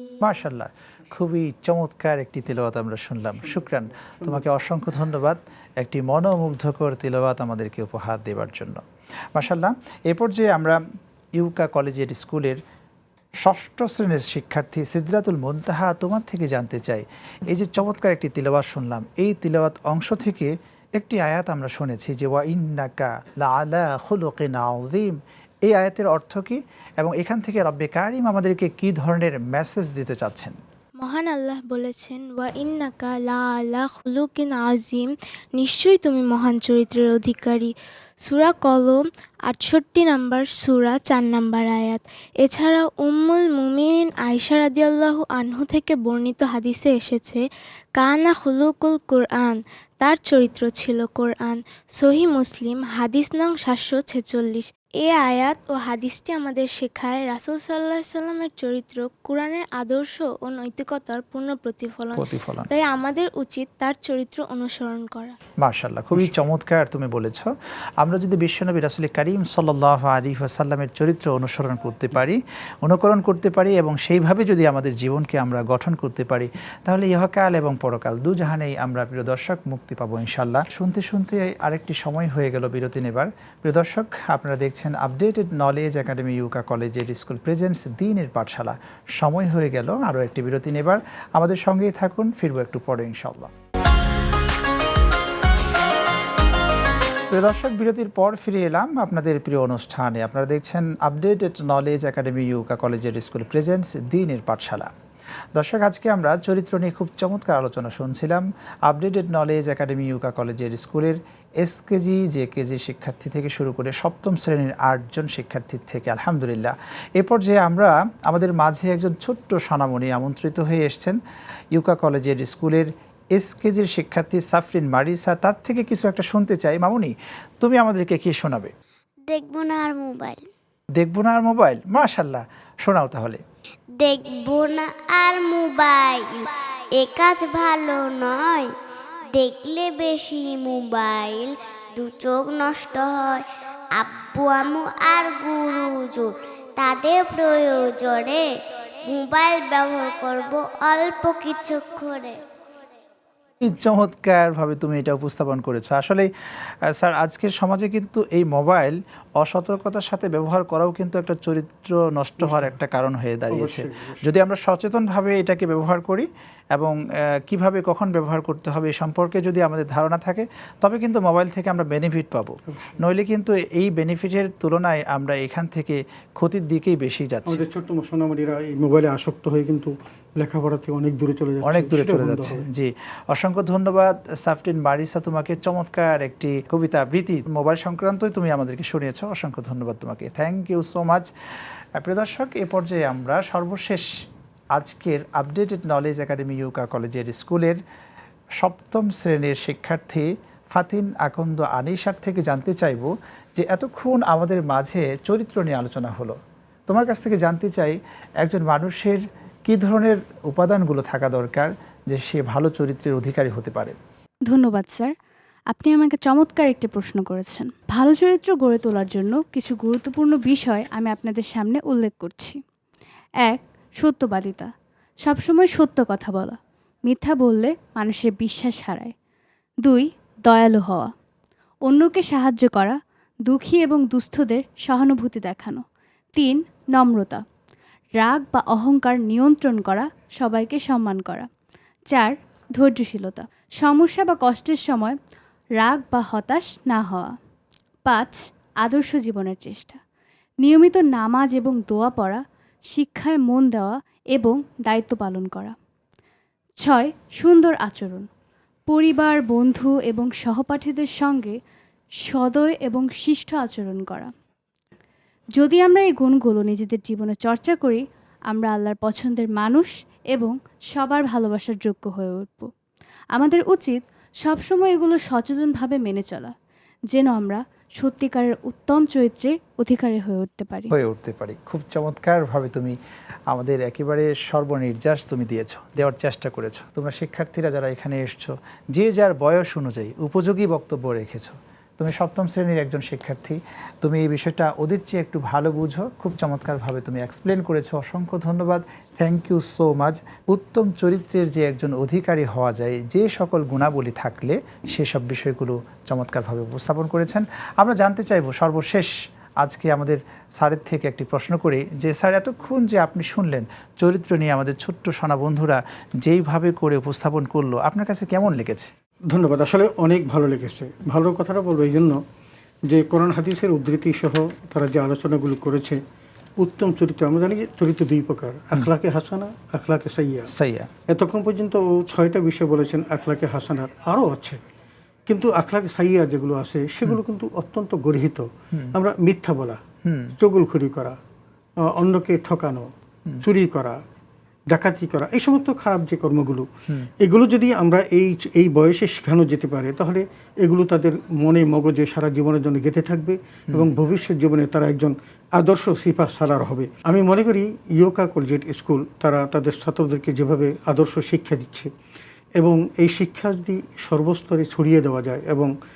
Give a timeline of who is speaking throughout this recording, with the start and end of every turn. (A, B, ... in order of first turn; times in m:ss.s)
0:00.2-0:08.8 A
0:04.1-0:04.4 B
0:09.4-0:10.8 A
0:11.4-0:12.6 A
0:13.4-0:30.6 A
0:31.0-0:37.7 C
0:38.2-0:47.4 C
0:48.0-1:05.4 C
1:02.2-1:02.7 A
1:05.6-1:33.5 A
1:37.3-1:44.9 A
1:45.6-2:01.2 A
2:01.7-2:08.7 A
2:09.3-2:10.4 D
2:11.0-2:13.4 A
2:14.0-2:18.7 D
2:19.3-2:23.5 D
2:24.0-2:28.4 D
2:29.1-2:32.4 D
2:33.6-2:57.6 A
2:42.4-2:42.7 B
2:43.5-2:44.2 B
2:52.7-2:53.0 B
2:57.5-3:02.6 B
3:01.7-3:11.3 A
3:12.0-3:14.1 A
3:14.7-3:17.8 A
3:18.6-3:34.0 A
3:34.5-3:35.1 E
3:35.7-3:42.6 E
3:43.4-3:44.7 E
3:45.2-3:49.1 E
3:49.8-3:51.1 E
3:51.9-3:55.8 E
3:56.4-3:57.4 E
3:58.2-4:01.5 E
4:02.1-4:05.2 E
4:05.8-4:07.4 E
4:08.0-4:10.0 E
4:10.6-4:15.8 E
4:16.8-4:18.3 E
4:18.9-4:21.6 E
4:22.2-4:24.3 E
4:25.6-4:32.7 E
4:33.3-4:36.5 E
4:37.1-4:40.9 E
4:40.9-4:43.0 A
4:43.5-5:18.9 A
5:19.3-5:22.2 B
5:22.9-5:26.0 B
5:26.6-5:30.5 B
5:30.5-5:30.9 A
5:31.1-5:34.6 B
5:35.3-5:39.8 B
5:40.0-5:40.4 A
5:40.4-5:41.2 B
5:41.8-5:42.9 B
5:43.4-5:44.0 B
5:44.7-5:46.7 B
5:47.2-6:01.9 B
6:02.6-6:05.7 B